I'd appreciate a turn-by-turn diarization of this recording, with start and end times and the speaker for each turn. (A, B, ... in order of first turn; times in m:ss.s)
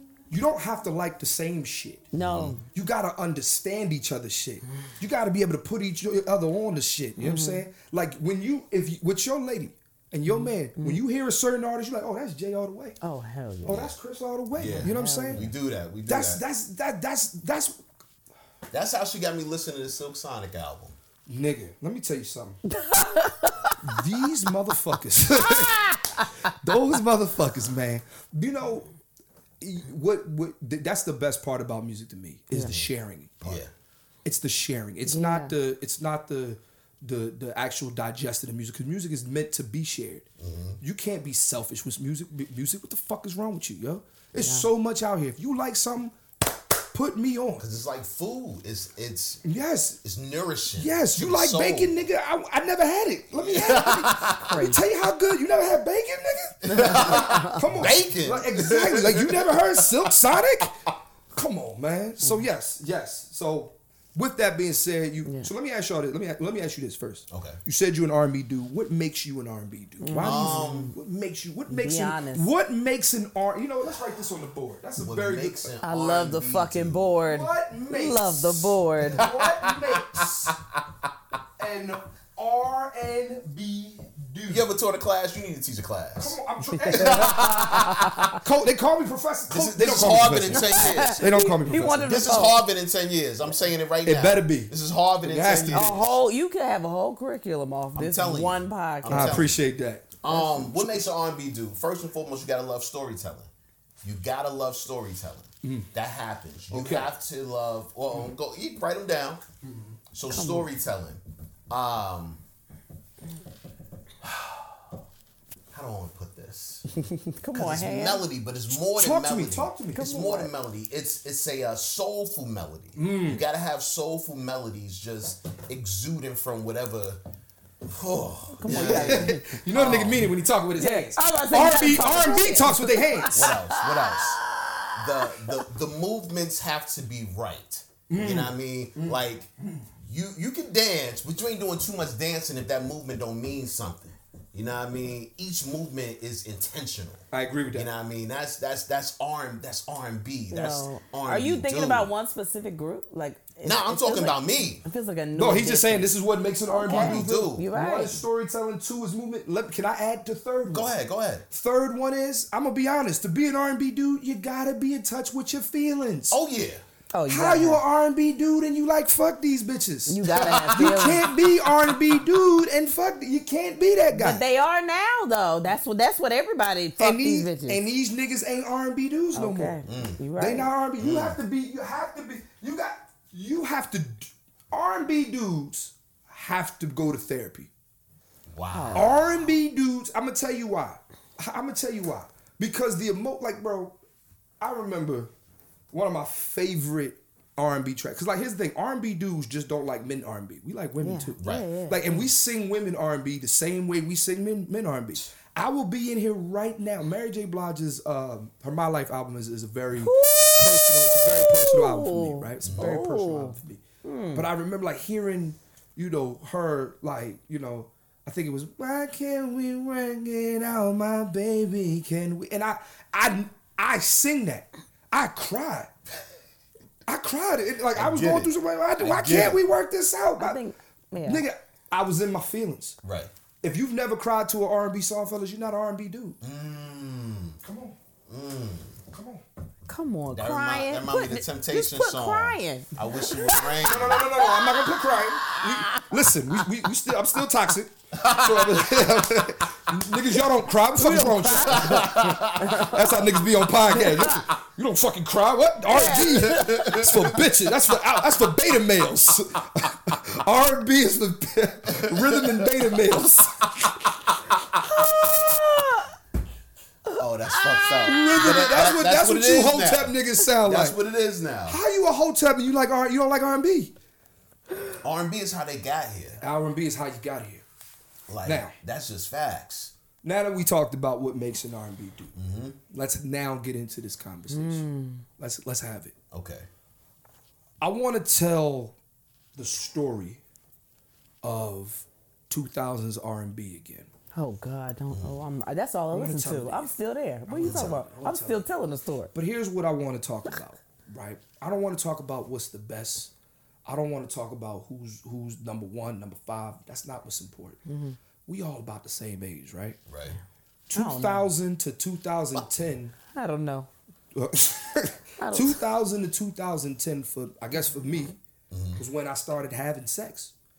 0:00.3-0:02.1 A
0:02.1-0:02.6 B
0:02.2-0:02.5 C
0:02.7-0:13.0 A
0:07.2-0:07.6 B
0:10.3-0:11.0 B
0:13.0-0:13.8 B
0:13.6-0:15.5 A
0:13.7-0:13.9 C
0:14.5-0:16.4 C
0:14.6-0:15.4 B
0:16.1-0:17.8 A
0:18.7-0:21.0 C
0:21.3-0:22.6 A
0:22.7-0:23.7 B
0:23.8-0:25.9 A
0:26.5-0:28.9 A
0:29.6-0:33.6 A
0:32.5-0:32.8 B
0:33.4-0:33.7 C
0:34.2-0:40.2 A
0:35.1-0:35.5 B
0:40.4-0:40.8 C
0:40.8-0:46.2 A
0:44.4-0:44.7 B
0:46.9-0:47.6 A
0:47.6-0:49.4 C
0:49.4-0:50.0 A
0:50.0-0:52.0 C
0:50.8-1:00.8 A
0:53.4-0:54.5 C
0:54.4-0:54.8 B
0:56.6-0:59.8 C
0:57.1-0:57.6 B
1:01.3-1:15.7 A
1:07.3-1:07.6 C
1:10.0-1:10.9 B
1:10.2-1:10.9 C
1:11.7-1:12.5 B
1:15.0-1:17.1 C
1:15.8-1:19.2 B
1:17.2-1:20.6 A
1:19.2-1:20.2 C
1:21.6-1:24.7 A
1:24.5-1:26.4 C
1:26.2-1:27.5 A
1:26.7-1:28.4 B
1:26.9-1:28.3 C
1:28.4-1:32.3 A
1:29.5-1:31.3 C
1:30.5-1:32.6 B
1:32.0-1:36.2 C
1:34.0-1:35.9 A
1:35.7-1:39.4 B
1:37.9-1:39.6 C
1:39.1-1:41.0 A
1:40.2-1:43.5 C
1:44.0-1:49.4 C
1:45.6-1:45.9 A
1:46.7-1:47.2 A
1:49.6-1:49.9 A
1:50.1-1:52.4 C
1:50.3-1:50.7 B
1:55.7-1:56.9 C
1:57.0-1:58.2 B
1:57.5-2:07.2 C
1:58.9-2:00.4 A
1:59.9-2:00.5 B
2:03.0-2:03.4 A
2:07.8-2:10.3 C
2:08.6-2:09.6 B
2:08.6-2:13.5 A
2:10.8-2:15.5 B
2:13.3-2:14.4 C
2:14.9-2:19.5 C
2:18.1-2:19.8 A
2:20.0-2:32.1 C
2:27.3-2:27.9 A
2:30.5-2:36.1 B
2:33.6-2:34.8 C
2:35.3-2:40.9 A
2:36.7-2:38.2 B
2:36.8-2:37.7 C
2:40.7-2:41.4 C
2:41.5-2:46.4 A
2:46.3-2:46.8 C
2:47.1-2:47.8 B
2:47.3-2:54.4 A
2:50.1-2:51.2 B
2:50.4-2:51.2 C
2:54.1-2:57.8 B
2:57.0-2:59.8 A
2:59.3-3:00.7 B
2:59.8-3:00.2 C
3:00.4-3:07.7 A
3:01.0-3:01.4 C
3:08.5-3:09.6 C
3:08.7-3:09.0 B
3:08.9-3:14.0 A
3:14.6-3:15.3 A
3:15.9-3:33.8 A
3:21.0-3:22.2 B
3:21.4-3:21.7 C
3:30.0-3:34.5 B
3:32.6-3:32.9 C
3:34.3-3:45.9 A
3:47.0-3:50.6 A
3:48.0-3:49.6 C
3:50.4-3:51.4 B
3:51.2-3:53.0 A
3:53.0-3:53.3 C
3:53.6-3:56.4 A
3:56.4-3:57.6 C
3:57.6-3:58.0 A
3:58.3-3:59.0 C
3:59.1-3:59.4 A
3:59.9-4:06.1 B
4:00.3-4:04.2 C
4:03.8-4:24.0 A
4:08.2-4:08.9 C
4:10.9-4:13.2 B
4:11.7-4:12.8 C
4:13.9-4:14.4 B
4:15.9-4:17.0 B
4:16.5-4:17.2 C
4:21.9-4:22.6 C
4:24.8-4:26.0 B
4:27.1-4:31.8 C
4:27.5-4:28.6 B
4:28.0-4:31.0 A
4:31.7-4:33.9 A
4:35.0-4:36.4 C
4:36.4-4:37.6 A
4:38.3-4:39.9 C
4:38.4-4:38.7 A
4:40.2-4:42.3 A
4:42.3-4:42.8 C
4:42.9-4:44.9 A
4:44.5-4:45.2 B
4:45.4-4:46.1 A
4:46.3-4:46.7 C
4:47.8-4:49.0 A
4:49.6-4:50.4 A
4:51.4-4:54.1 A
4:54.3-4:59.3 B
4:56.1-4:56.9 A
4:57.4-4:58.6 A
4:57.6-4:57.9 C
4:59.3-5:03.3 A
5:03.8-5:07.8 A
5:07.8-5:08.2 B
5:08.4-5:10.0 A
5:10.1-5:10.4 C
5:10.9-5:13.1 A
5:10.9-5:11.4 B
5:12.5-5:12.8 C
5:13.3-5:13.9 B
5:14.3-5:18.4 A
5:15.4-5:15.8 B
5:18.7-5:19.0 C
5:18.9-5:20.5 A